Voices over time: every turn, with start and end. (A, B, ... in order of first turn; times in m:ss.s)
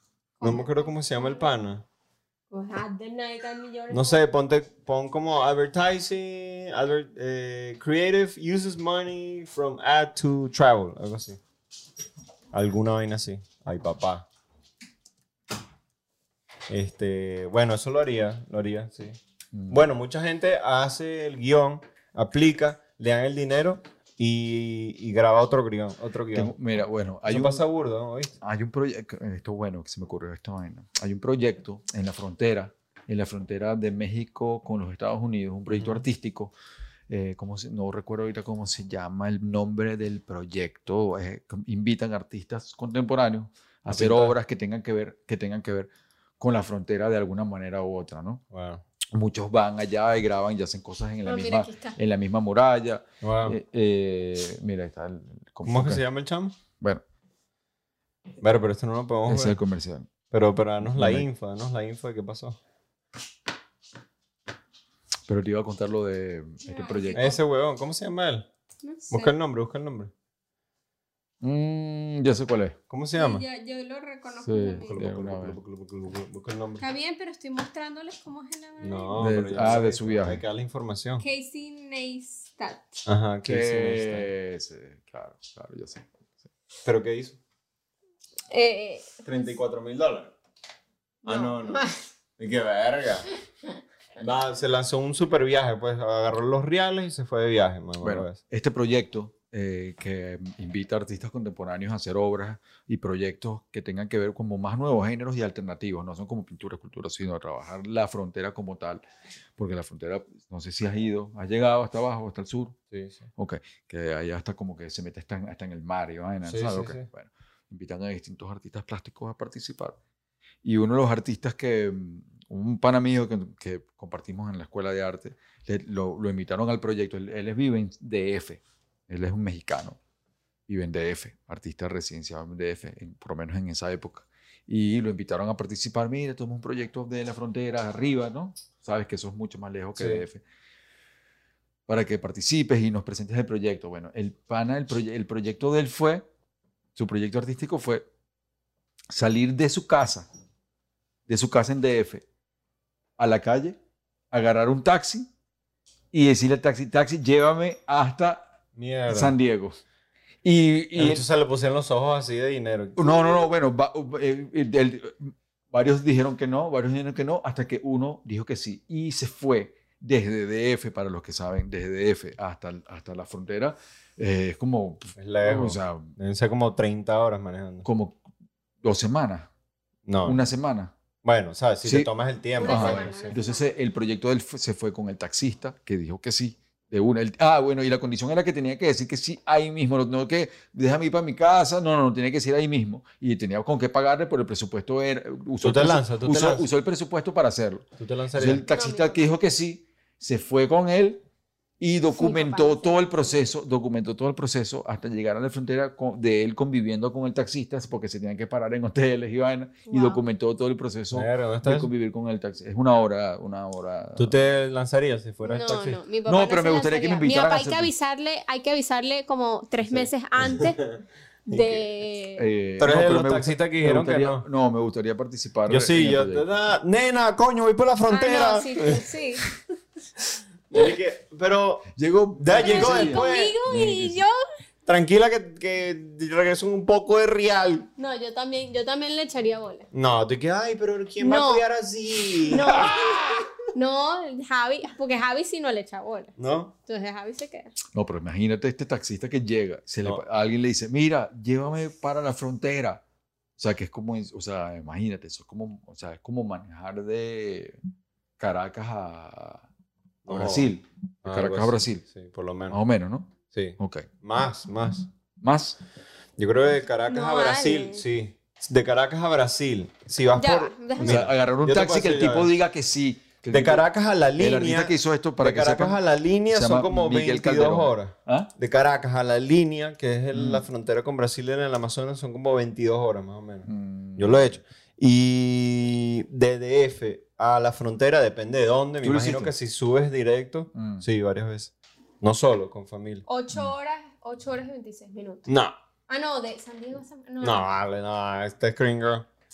0:00.4-0:01.5 A
0:00.4-0:01.8 B
0:02.5-0:04.2 A
0:03.9-0:11.4 B
0:12.5-0:14.2 B
0:16.7-0:19.2 B
0:19.5-0:19.9 C
0:19.7-0:26.6 B
0:26.3-0:27.6 C
0:27.2-0:28.3 B
0:28.4-0:36.5 C
0:35.7-0:36.0 B
0:37.1-0:48.4 C
0:43.9-0:44.3 B
0:48.5-0:48.8 B
0:49.1-0:56.0 C
0:51.2-0:52.0 A
0:53.2-0:53.6 B
0:55.6-0:56.5 B
0:58.4-0:59.6 B
0:59.2-1:00.1 C
1:00.3-1:02.6 B
1:00.8-1:01.3 C
1:05.3-1:07.4 C
1:06.6-1:07.4 A
1:07.1-1:08.5 B
1:08.8-1:09.3 A
1:09.1-1:10.1 B
1:11.4-1:12.8 C
1:12.9-1:13.4 B
1:13.1-1:14.9 A
1:14.4-1:15.6 C
1:14.8-1:16.8 B
1:16.8-1:19.2 A
1:18.8-1:21.2 B
1:19.1-1:20.4 C
1:21.2-1:23.0 A
1:23.0-1:24.3 B
1:23.4-1:26.1 C
1:26.8-1:27.4 B
1:28.5-1:29.2 A
1:29.2-1:30.3 B
1:31.2-1:33.3 B
1:31.2-1:31.9 A
1:34.2-1:38.4 B
1:38.0-1:49.0 C
1:49.6-1:52.8 C
1:52.9-1:53.2 B
1:53.4-2:00.0 C
1:56.4-1:57.0 B
2:00.6-2:10.0 C
2:10.7-2:20.4 C
2:20.0-2:20.2 B
2:21.9-2:26.2 C
2:27.0-2:28.0 C
2:29.1-2:30.3 C
2:31.3-2:32.2 C
2:33.2-2:33.8 C
2:34.3-2:35.3 C
2:36.1-2:38.5 C
2:38.8-2:39.3 B
2:39.1-2:39.8 C
2:40.4-2:41.2 C
2:41.0-2:43.4 B
2:43.0-2:56.1 C
2:55.2-2:57.8 B
2:57.8-2:58.2 C
2:58.8-2:59.5 C
3:00.0-3:00.4 B
3:00.2-3:00.9 C
3:01.2-3:03.3 B
3:01.8-3:02.1 C
3:02.6-3:03.7 A
3:02.6-3:21.2 C
3:15.6-3:16.7 B
3:18.0-3:18.6 B
3:18.7-3:19.3 A
3:21.8-3:34.4 C
3:22.1-3:23.4 A
3:29.9-3:30.2 A
3:31.1-3:31.9 B
3:34.2-3:36.0 B
3:35.4-3:40.8 A
3:36.2-3:37.9 C
3:39.8-3:40.9 B
3:41.5-3:42.5 A
3:41.5-3:41.8 B
3:42.4-3:46.6 C
3:42.8-3:44.4 B
3:45.7-3:49.0 B
3:48.1-3:49.4 A
3:50.7-3:53.6 B
3:52.0-3:54.2 C
3:52.6-3:54.4 A
3:54.8-3:57.9 B
3:58.0-3:59.9 A
3:59.9-4:02.9 B
4:01.2-4:01.6 A
4:02.5-4:06.3 A
4:06.4-4:06.7 B
4:06.9-4:07.7 A
4:07.9-4:13.0 C
4:13.6-4:17.8 C
4:18.4-4:19.6 C
4:20.2-4:20.7 B
4:20.3-4:22.0 C
4:21.2-4:22.8 B
4:22.7-4:24.1 C
4:23.5-4:25.1 B
4:25.4-4:25.8 C
4:26.4-4:32.5 B
4:27.1-4:28.0 A
4:30.3-4:31.2 A
4:31.0-4:38.5 C
4:33.5-4:53.2 B
4:40.3-4:40.7 C
4:43.6-4:44.6 C
4:49.0-4:49.5 C
4:50.7-4:51.0 C
4:53.3-4:55.4 A
4:55.5-4:55.7 B
4:56.1-4:57.7 A
4:57.4-4:59.3 B